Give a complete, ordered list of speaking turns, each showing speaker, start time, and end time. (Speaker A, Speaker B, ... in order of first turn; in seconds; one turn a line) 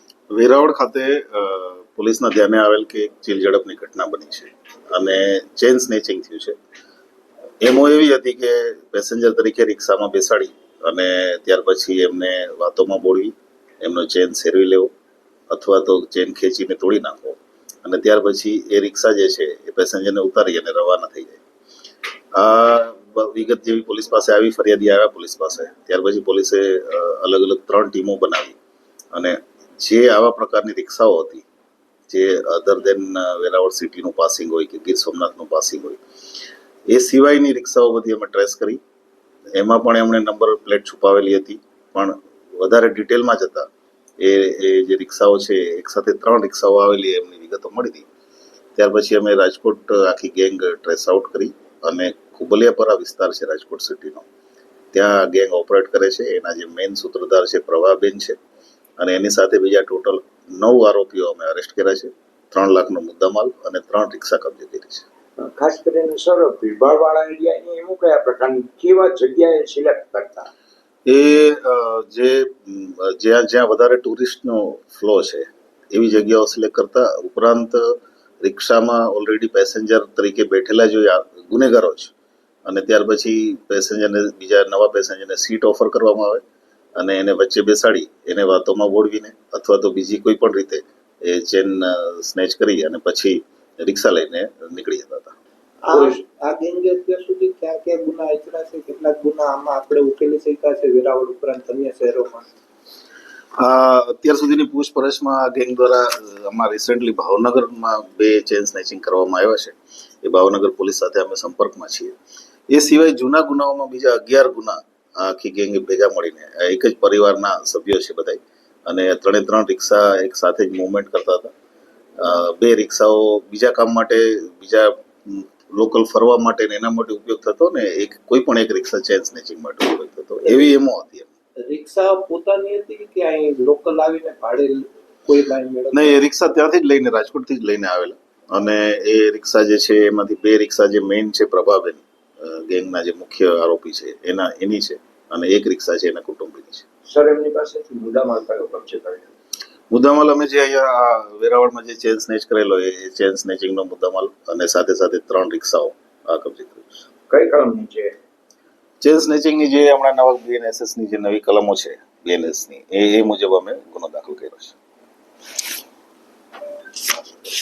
Speaker A: 0.3-6.6
Speaker A: 7.6-14.9
Speaker A: 15.5-21.4
Speaker A: 22.3-28.6
Speaker A: 29.1-31.4
Speaker A: 32.1-36.0
Speaker A: 36.9-38.8
Speaker A: 39.5-43.7
Speaker A: 44.2-48.1
Speaker A: 48.8-54.2
Speaker A: 54.9-58.4
Speaker A: 59.0-65.0
Speaker B: 65.4-70.5
Speaker A: 71.0-82.1
Speaker A: 82.7-86.4
Speaker A: 87.0-95.3
Speaker C: 95.8-102.5
Speaker B: 95.9-96.2
Speaker A: 103.6-112.1
Speaker A: 112.7-121.5
Speaker A: 122.2-131.3
Speaker C: 131.6-136.2
Speaker A: 135.9-146.8
Speaker B: 147.1-149.3
Speaker A: 149.9-156.9
Speaker B: 157.3-158.1
Speaker A: 159.0-164.8